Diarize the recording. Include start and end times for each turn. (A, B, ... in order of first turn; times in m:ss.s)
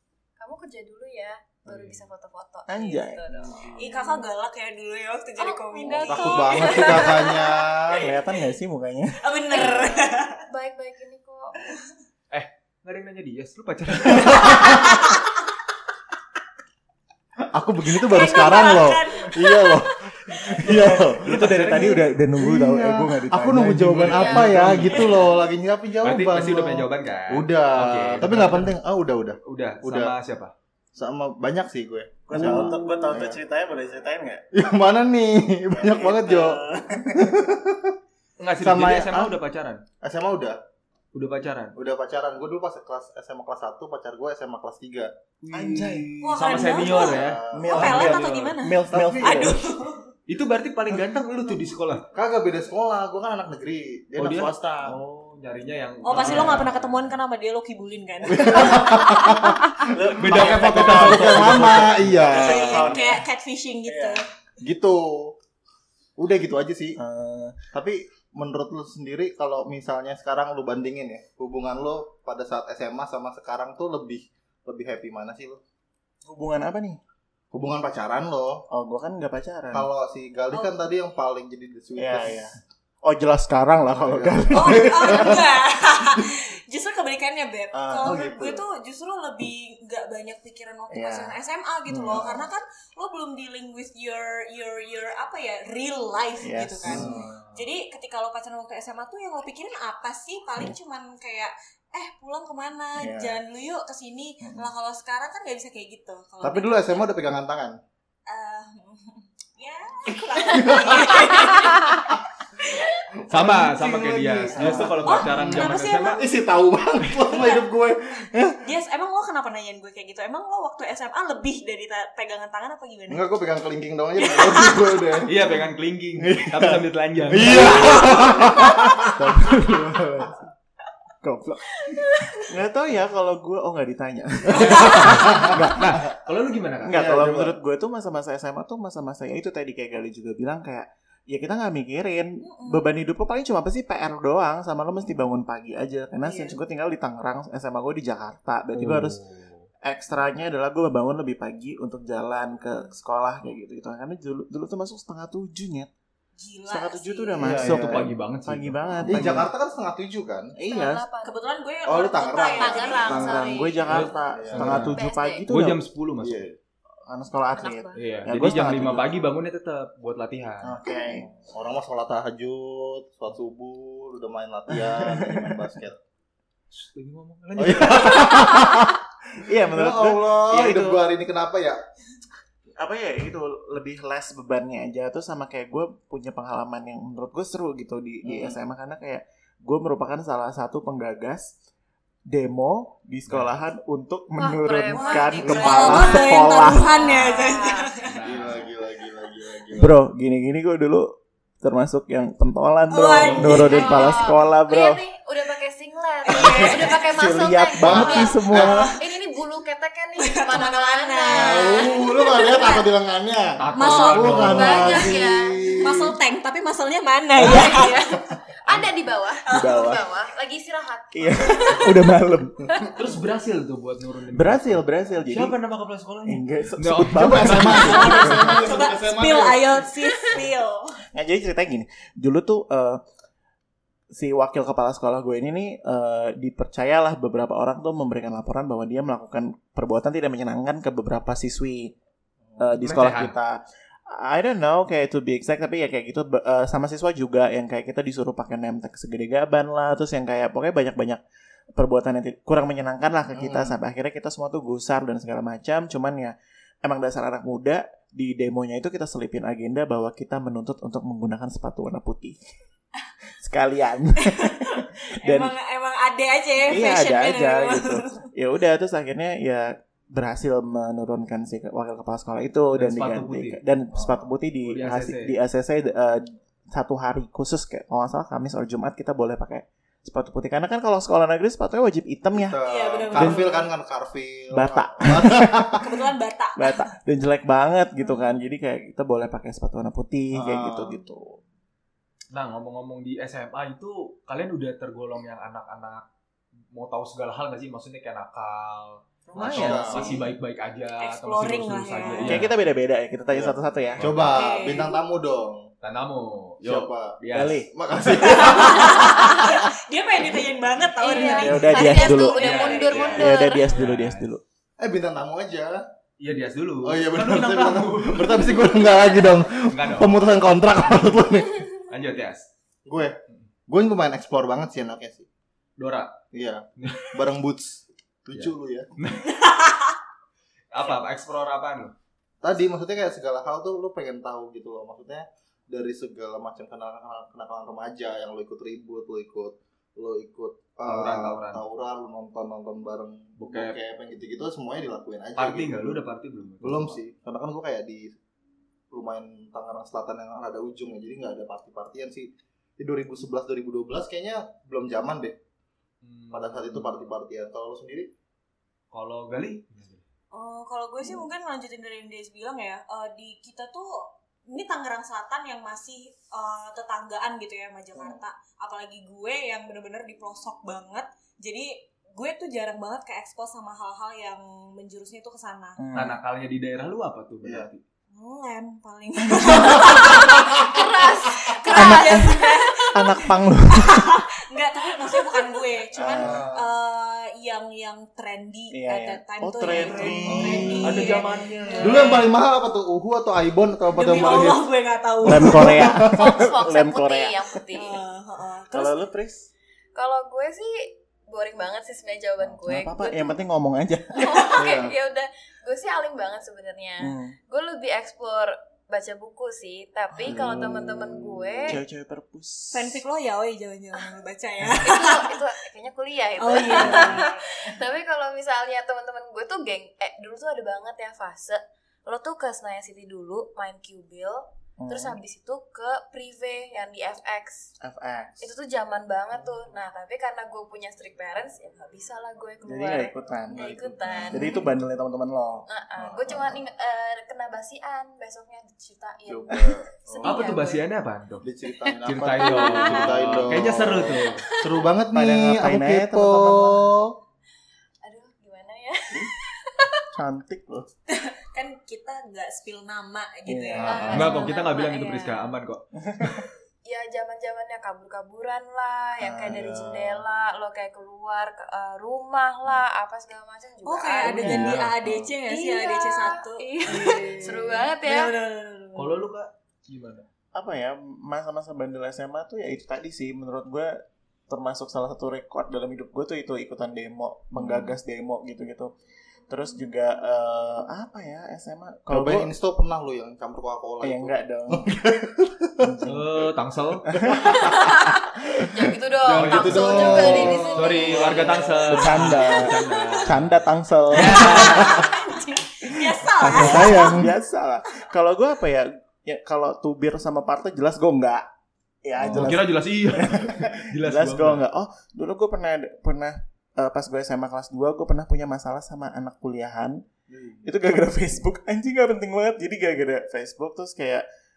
0:00.4-0:04.1 A
0:01.7-0:02.0 B
0:02.7-0:04.1 C
0:03.8-0:07.6 D
0:05.4-0:07.1 A
0:06.1-0:08.1 E
0:07.9-0:09.2 C
0:09.2-0:10.4 D
0:09.5-0:09.8 A
0:10.5-0:11.7 A
0:12.3-0:14.8 B
0:14.1-0:15.2 D
0:17.5-0:30.1 E
0:18.0-0:20.0 D
0:20.6-0:25.2 C
0:24.0-0:24.9 A
0:24.8-0:25.2 D
0:26.0-0:28.8 B
0:29.4-0:30.5 B
0:30.9-0:33.4 E
0:32.3-0:34.4 C
0:34.5-0:37.9 E
0:35.7-0:37.3 C
0:38.4-0:39.8 B
0:38.6-0:39.2 E
0:40.0-0:40.6 E
0:41.1-0:41.7 B
0:41.8-0:45.1 E
0:45.4-0:48.6 B
0:45.5-0:46.8 C
0:46.2-0:50.1 D
0:46.8-0:48.0 E
0:47.5-0:49.6 C
0:48.9-0:49.6 E
0:50.3-0:52.1 B
0:52.1-0:55.0 E
0:54.2-0:57.2 B
0:56.0-0:59.5 D
0:58.2-0:59.6 E
0:59.9-1:03.2 C
1:00.2-1:02.2 B
1:00.2-1:03.0 E
1:02.3-1:04.2 D
1:03.8-1:04.2 C
1:04.6-1:05.4 E
1:06.2-1:07.0 E
1:07.0-1:07.6 C
1:07.7-1:15.6 E
1:16.2-1:17.0 C
1:17.5-1:18.6 E
1:18.7-1:19.9 C
1:19.7-1:22.5 E
1:22.0-1:25.4 C
1:23.9-1:25.5 E
1:24.5-1:47.1 D
1:27.7-1:28.2 C
1:28.0-1:28.6 E
1:30.9-1:31.4 C
1:31.9-1:32.2 C
1:32.0-1:32.5 E
1:36.4-1:37.1 C
1:36.8-1:37.3 E
1:37.1-1:37.6 B
1:43.0-1:43.4 C
1:44.4-1:44.7 C
1:46.4-1:47.8 E
1:48.3-1:53.0 D
1:50.3-1:51.4 E
1:53.1-1:58.6 E
1:53.3-1:56.2 B
1:54.6-1:56.2 D
1:57.2-1:57.7 D
1:58.6-2:03.4 D
2:03.1-2:05.5 E
2:04.2-2:05.2 D
2:05.2-2:08.0 B
2:06.2-2:10.0 E
2:07.4-2:10.4 C
2:11.2-2:11.8 C
2:12.4-2:16.1 C
2:14.6-2:15.6 E
2:15.0-2:17.0 B
2:16.8-2:29.2 C
2:16.9-2:17.5 E
2:22.4-2:22.9 D
2:26.2-2:26.6 D
2:28.7-2:29.6 B
2:29.8-2:35.9 C
2:36.4-2:37.6 D
2:36.6-2:39.5 C
2:37.4-2:38.1 E
2:37.6-2:38.8 B
2:39.0-2:40.5 E
2:40.6-2:41.1 C
2:40.6-2:41.4 A
2:41.2-2:43.6 D
2:41.8-2:43.5 E
2:42.4-2:44.1 A
2:43.1-2:45.8 C
2:43.8-2:46.5 B
2:44.3-2:44.9 E
2:44.8-2:45.5 A
2:46.2-2:46.6 E
2:47.0-2:49.2 C
2:47.5-2:48.4 A
2:48.0-2:50.8 B
2:50.6-2:51.3 C
2:51.2-2:56.0 E
2:54.9-2:55.5 C
2:56.7-2:58.6 B
2:57.5-2:58.9 E
2:59.4-3:01.0 C
2:59.7-3:01.8 E
3:02.8-3:11.6 C
3:08.2-3:08.6 E
3:12.3-3:17.1 C
3:13.3-3:13.6 B
3:14.4-3:17.9 A
3:14.9-3:18.0 D
3:17.0-3:17.2 B
3:18.0-3:18.7 B
3:18.2-3:20.0 E
3:19.8-3:25.0 C
3:22.9-3:24.2 D
3:23.2-3:23.6 B
3:23.3-3:23.8 E
3:23.6-3:31.9 A
3:26.2-3:27.1 D
3:26.3-3:28.9 C
3:27.8-3:28.8 E
3:28.6-3:29.2 D
3:30.2-3:32.9 D
3:31.3-3:36.2 E
3:33.6-3:34.7 B
3:33.7-3:35.2 D
3:33.9-3:35.6 A
3:35.8-3:38.2 D
3:37.4-3:42.1 A
3:39.4-3:40.0 D
3:39.5-3:40.1 C
3:41.1-3:42.8 C
3:42.7-3:43.2 A
3:42.9-3:48.1 B
3:44.3-3:45.6 C
3:46.2-3:48.6 C
3:47.1-3:49.9 E
3:47.8-3:51.0 D
3:51.1-3:53.0 C
3:54.1-4:01.9 C
4:02.6-4:03.6 C
4:02.8-4:03.3 B
4:04.1-4:11.2 C
4:11.7-4:22.4 C
4:13.3-4:13.7 E
4:23.4-4:25.5 C
4:24.2-4:28.2 D
4:26.7-4:42.6 C
4:32.7-4:33.6 B
4:34.6-4:35.4 B
4:42.3-4:45.8 E
4:42.6-4:43.7 D
4:43.1-4:43.4 C
4:44.5-4:45.8 C
4:45.8-4:46.9 D
4:46.6-4:51.4 C
4:48.0-4:48.4 D
4:50.3-4:51.0 E
4:52.3-4:56.0 B
4:56.7-5:02.5 B
4:59.3-5:00.2 E
4:59.3-5:00.3 C
5:01.0-5:02.5 D
5:02.2-5:04.1 C
5:03.3-5:05.7 E
5:04.0-5:04.4 B
5:04.3-5:05.0 D
5:05.8-5:07.6 B
5:06.6-5:07.2 E
5:07.3-5:07.7 C
5:07.7-5:09.3 E
5:08.2-5:13.4 D
5:11.0-5:13.8 A
5:11.3-5:14.4 C
5:12.4-5:14.3 B
5:14.8-5:15.8 E
5:16.2-5:19.0 B
5:16.8-5:21.7 E
5:19.6-5:21.1 B
5:21.9-5:22.5 B
5:22.8-5:23.2 E
5:23.7-5:25.3 E
5:25.8-5:26.1 B
5:26.3-5:28.9 E
5:26.8-5:27.2 B
5:28.3-5:29.3 B
5:29.3-5:29.9 D
5:30.7-5:32.0 B
5:32.4-5:46.0 E
5:40.8-5:41.6 B
5:43.4-5:43.8 B
5:45.4-5:47.0 B
5:46.6-5:48.1 E
5:48.9-5:55.4 E
5:56.0-5:57.2 B
5:56.3-5:58.1 E
5:58.9-6:00.0 B
6:00.3-6:15.8 D
6:15.8-6:16.2 C
6:15.9-6:17.8 B
6:17.4-6:17.7 E
6:18.1-6:32.2 D
6:20.6-6:22.8 A
6:21.7-6:24.2 C
6:25.9-6:26.4 C
6:26.2-6:26.7 E
6:28.7-6:31.0 C
6:30.0-6:30.4 A
6:30.2-6:31.0 E
6:30.8-6:32.3 B
6:31.8-6:34.6 E
6:33.9-6:35.9 D
6:35.2-6:36.2 E
6:35.2-6:37.7 C
6:36.0-6:37.9 A
6:37.7-6:39.0 D
6:38.7-6:39.5 C
6:39.9-6:43.3 A
6:42.4-6:44.9 C
6:44.1-6:51.8 A
6:47.0-6:47.4 C
6:50.1-6:50.8 C
6:51.7-6:53.0 C
6:52.7-6:55.4 D
6:54.8-7:07.7 A
6:56.4-6:57.7 D
6:56.8-6:57.2 C
7:04.8-7:05.2 C
7:07.8-7:08.4 C
7:08.4-7:14.6 A
7:12.6-7:13.7 C
7:13.5-7:14.7 E
7:14.3-7:15.6 C
7:15.7-7:20.8 A
7:16.0-7:16.6 E
7:19.3-7:20.4 E
7:20.2-7:21.4 B
7:21.4-7:27.1 E
7:22.0-7:24.5 B
7:22.6-7:23.0 A
7:22.8-7:23.1 D
7:24.0-7:24.8 A
7:25.1-7:26.9 C
7:28.0-7:30.0 A
7:30.1-7:30.9 C
7:31.1-7:35.4 D
7:33.5-7:34.4 C
7:33.7-7:34.5 E
7:33.8-7:35.3 A
7:34.1-7:35.8 B
7:36.0-7:36.5 C
7:36.8-7:44.4 A
7:39.2-7:40.2 C
7:43.8-7:49.2 D
7:44.3-7:44.9 B
7:44.4-7:45.3 C
7:45.4-7:48.3 A
7:49.0-7:50.3 B
7:50.5-7:53.9 C
7:54.5-7:58.9 C
7:57.5-7:57.9 B
7:59.5-8:02.5 C
8:02.1-8:05.9 E
8:04.0-8:05.0 C
8:05.8-8:06.4 C
8:06.0-8:07.6 B
8:07.1-8:08.9 C
8:07.4-8:11.5 A
8:09.3-8:12.1 E
8:09.3-8:14.8 B
8:10.1-8:10.7 C
8:11.4-8:15.1 C
8:12.1-8:13.3 D
8:14.2-8:17.3 D
8:15.9-8:21.4 C
8:16.4-8:17.3 E
8:22.0-8:30.0 C
8:22.2-8:22.6 E
8:22.3-8:24.6 B
8:30.3-8:30.7 E
8:30.6-8:34.2 C